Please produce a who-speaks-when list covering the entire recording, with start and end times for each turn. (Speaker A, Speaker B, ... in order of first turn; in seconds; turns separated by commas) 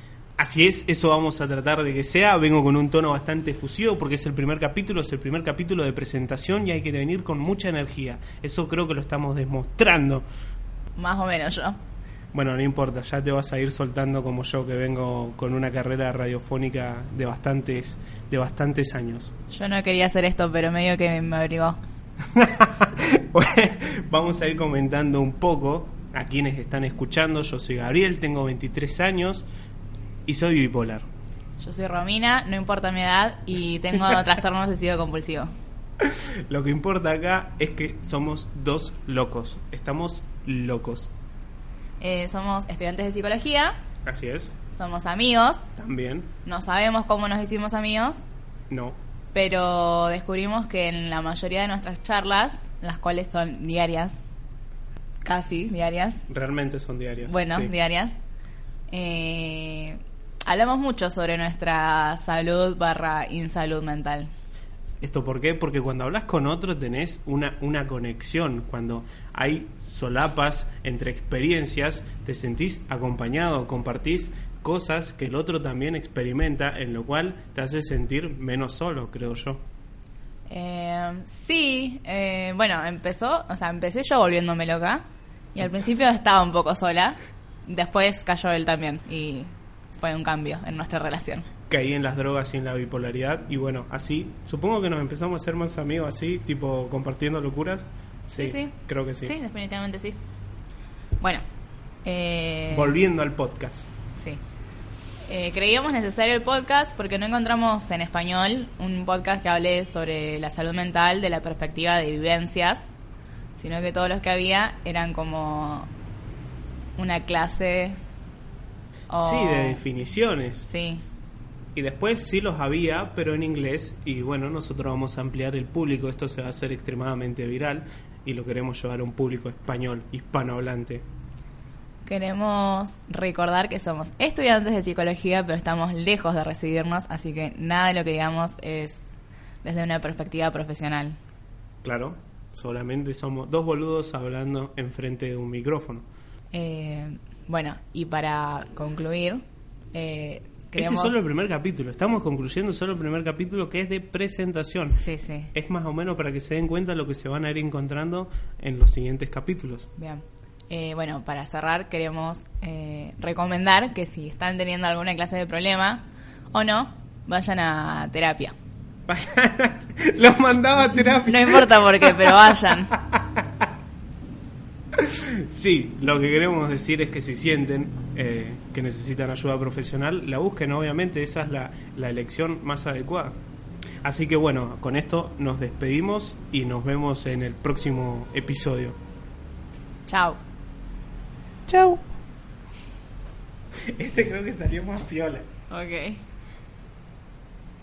Speaker A: 0.4-10.2, Speaker B: 10.9-11.8, Speaker A: 12.3-19.3, Speaker B: 19.5-21.8, Speaker A: 22.3-29.4, Speaker A: 30.2-31.1, Speaker B: 31.6-35.5, Speaker A: 36.0-41.1, Speaker B: 42.0-43.7, Speaker A: 44.0-44.5, Speaker B: 44.7-45.7, Speaker A: 45.8-46.3, Speaker B: 46.4-48.2, Speaker A: 48.7-49.0, Speaker B: 49.3-54.2, Speaker B: 55.2-56.2, Speaker A: 56.3-57.7, Speaker B: 57.3-58.1, Speaker B: 58.9-64.3, Speaker A: 65.0-79.6, Speaker B: 80.5-85.0, Speaker B: 85.5-91.5, Speaker A: 91.7-99.3, Speaker B: 98.4-100.2, Speaker B: 102.0-103.0, Speaker A: 102.7-103.9, Speaker B: 104.2-104.4, Speaker B: 105.3-112.8, Speaker B: 113.5-115.9, Speaker B: 117.0-118.0, Speaker B: 119.1-119.8, Speaker A: 119.2-120.7, Speaker B: 120.6-121.0, Speaker A: 121.7-131.0, Speaker B: 132.1-139.0, Speaker B: 139.6-141.2, Speaker A: 141.8-146.1, Speaker B: 146.5-149.4, Speaker B: 149.9-151.2, Speaker A: 150.7-155.0, Speaker B: 155.0-155.5, Speaker A: 155.5-159.9, Speaker B: 160.0-168.5, Speaker A: 169.1-173.4, Speaker B: 171.1-172.9, Speaker A: 174.9-183.3, Speaker A: 184.0-189.0, Speaker B: 190.1-190.4, Speaker B: 191.7-192.0, Speaker A: 193.9-195.4, Speaker B: 195.7-196.2